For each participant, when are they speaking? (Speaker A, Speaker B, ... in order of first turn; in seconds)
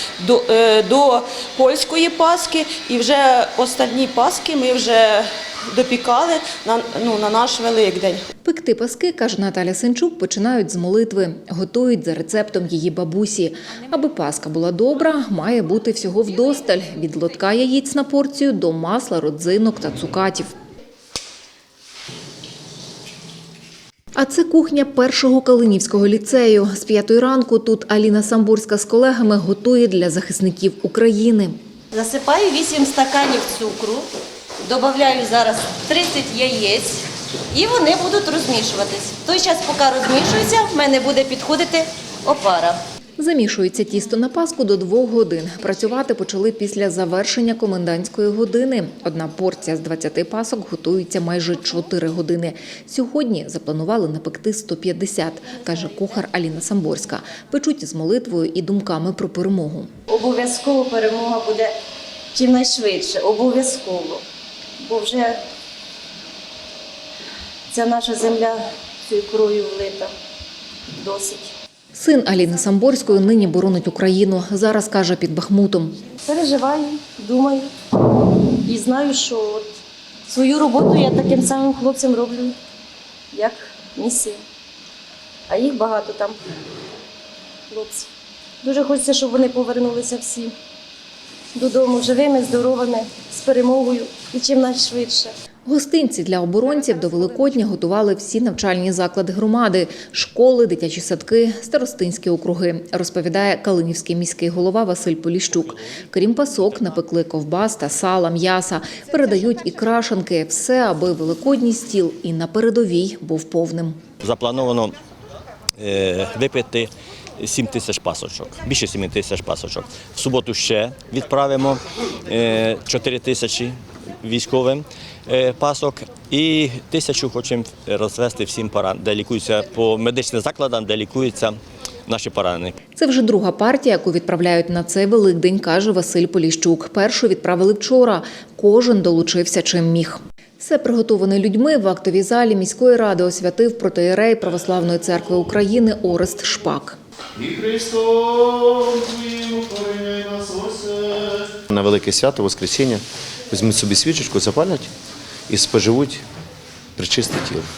Speaker A: 0.2-5.1, 5.7-8.2
Speaker B: 8.4-20.5, 24.1-31.6, 43.2-59.9, 71.9-76.0, 95.7-114.0, 132.9-147.0
Speaker C: 31.9-34.0, 34.6-37.0, 37.5-42.8, 60.1-61.7, 62.3-64.2, 64.8-65.4, 67.7-70.1, 70.9-71.5, 76.2-79.7, 80.3-82.5, 83.3-84.4, 85.5-86.4, 87.7-88.1, 88.6-90.5, 91.5-95.3
Speaker D: 114.2-115.0, 115.8-131.6, 132.1-132.7
Speaker E: 147.3-154.9, 155.5-156.2, 156.9-157.7